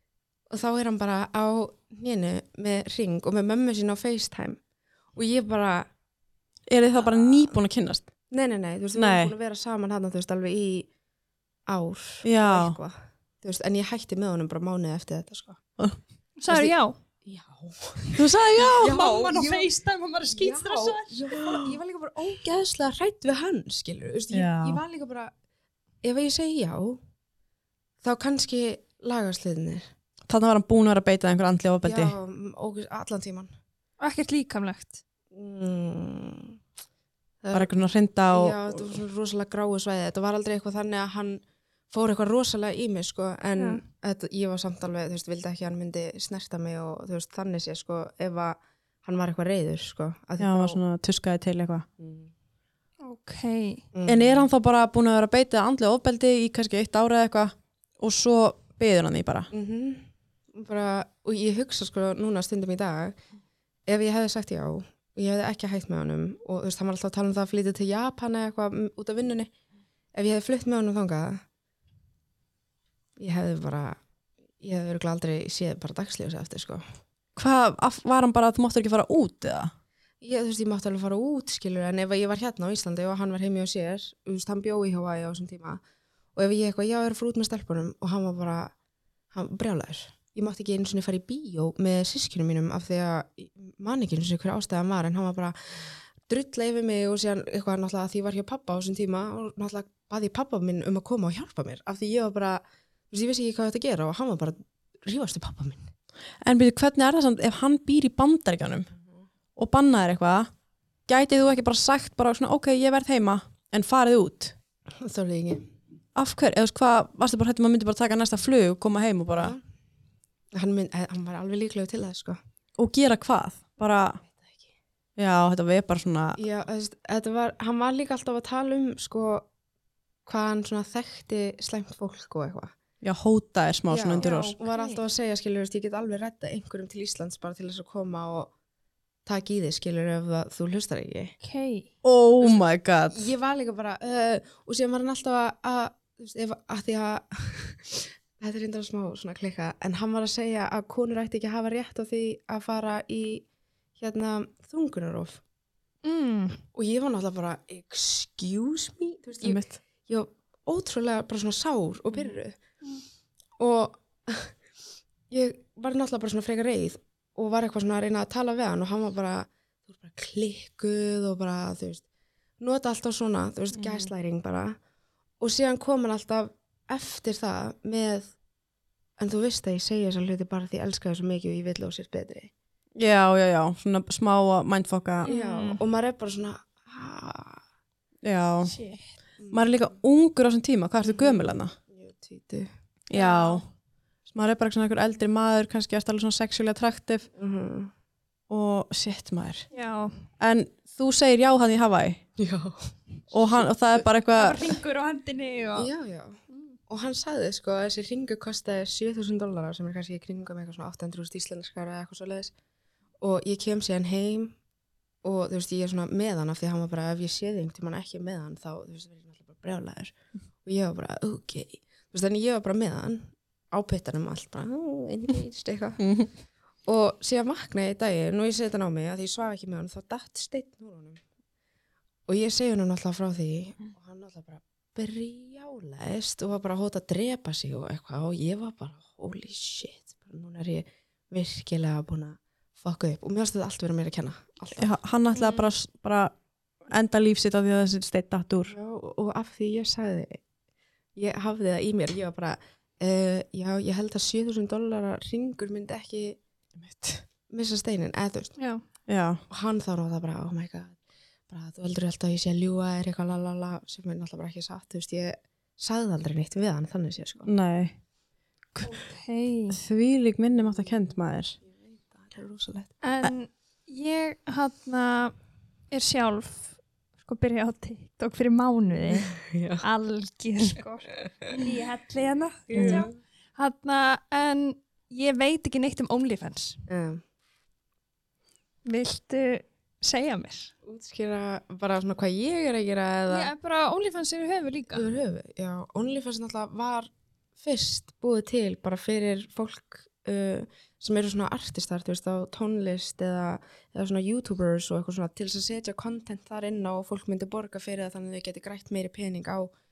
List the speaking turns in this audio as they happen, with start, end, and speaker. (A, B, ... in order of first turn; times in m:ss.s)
0:00.5-0:04.6 A
0:05.2-0:05.9 A
0:06.7-0:08.1 B
0:07.0-0:07.5 A
0:08.3-0:10.9 A
0:09.0-0:09.3 B
0:11.7-0:15.6 A
0:12.2-0:12.8 B
0:16.4-0:17.0 C
0:17.2-0:19.7 A
0:18.2-0:19.3 B
0:18.8-0:21.3 C
0:20.3-0:25.3 A
0:21.3-0:21.7 B
0:24.3-0:24.8 B
0:26.0-0:27.0 A
0:28.0-0:29.9 A
0:30.3-0:32.2 B
0:31.8-0:33.5 A
0:34.0-0:35.0 C
0:35.3-0:36.6 A
0:37.4-0:37.8 A
0:37.5-0:39.0 B
0:38.3-0:50.8 A
0:43.6-0:43.8 C
0:50.4-0:51.9 B
0:52.0-0:52.3 A
0:53.0-0:53.8 C
0:53.9-0:54.5 A
0:54.1-0:59.5 B
0:59.5-1:03.2 A
1:03.9-1:09.5 A
1:10.1-1:11.4 A
1:13.2-1:14.0 A
1:14.6-1:16.8 A
1:17.4-1:19.7 B
1:20.2-1:25.8 A
1:26.4-1:28.7 A
1:29.3-1:35.6 A
1:36.3-1:45.9 A
1:46.4-1:48.9 B
1:49.6-1:50.5 B
1:51.1-1:54.6 B
1:55.0-1:55.7 A
1:56.2-1:59.6 B
1:59.3-1:59.6 A
2:00.5-2:02.4 A
2:02.8-2:04.2 B
2:04.3-2:04.7 A
2:05.2-2:06.4 B
2:06.4-2:09.5 A
2:10.3-2:12.7 A
2:13.0-2:14.6 B
2:13.9-2:18.5 A
2:14.2-2:15.0 C
2:19.3-2:21.3 A
2:21.4-2:21.9 C
2:22.0-2:23.2 B
2:22.4-2:33.5 A
2:34.0-2:35.4 A
2:36.0-2:36.6 C
2:36.7-2:42.6 A
2:39.4-2:39.8 B
2:43.6-2:44.5 A
2:45.3-2:52.0 A
2:52.6-2:54.8 A
2:53.8-2:54.1 B
2:55.4-2:58.3 A
2:59.2-3:02.5 A
3:03.0-3:05.3 B
3:05.2-3:05.8 C
3:05.2-3:07.6 A
3:08.2-3:08.8 B
3:08.7-3:09.0 C
3:09.4-3:09.8 A
3:09.5-3:11.7 B
3:11.0-3:13.6 A
3:13.1-3:13.6 B
3:13.2-3:13.6 C
3:14.3-3:17.3 B
3:17.4-3:17.9 A
3:18.5-3:19.7 B
3:19.7-3:20.2 C
3:20.4-3:22.2 B
3:22.4-3:22.9 A
3:23.3-3:24.8 B
3:24.4-3:25.9 C
3:25.8-3:32.5 A
3:33.2-3:34.6 A
3:35.2-3:40.1 A
3:40.6-3:46.0 A
3:46.0-3:46.3 B
3:46.9-3:51.2 A
3:52.3-4:04.9 A
4:04.8-4:06.3 B
4:05.4-4:05.7 A
4:06.9-4:08.8 B
4:08.7-4:10.4 A
4:11.2-4:16.4 A
4:16.8-4:17.2 B
4:17.5-4:18.5 A
4:18.6-4:18.8 C
4:19.1-4:19.4 B
4:19.5-4:21.0 A
4:21.5-4:27.5 A
4:27.4-4:28.0 B
4:28.8-4:29.8 C
4:29.7-4:31.6 B
4:31.7-4:32.9 A
4:33.0-4:35.3 C
4:35.9-4:46.8 C
4:39.3-4:39.8 A
4:42.7-4:43.2 A
4:42.8-4:43.1 B
4:46.9-4:47.2 A
4:48.9-4:50.7 C
4:50.8-4:53.5 A
4:53.3-4:55.1 C
4:54.9-5:09.7 A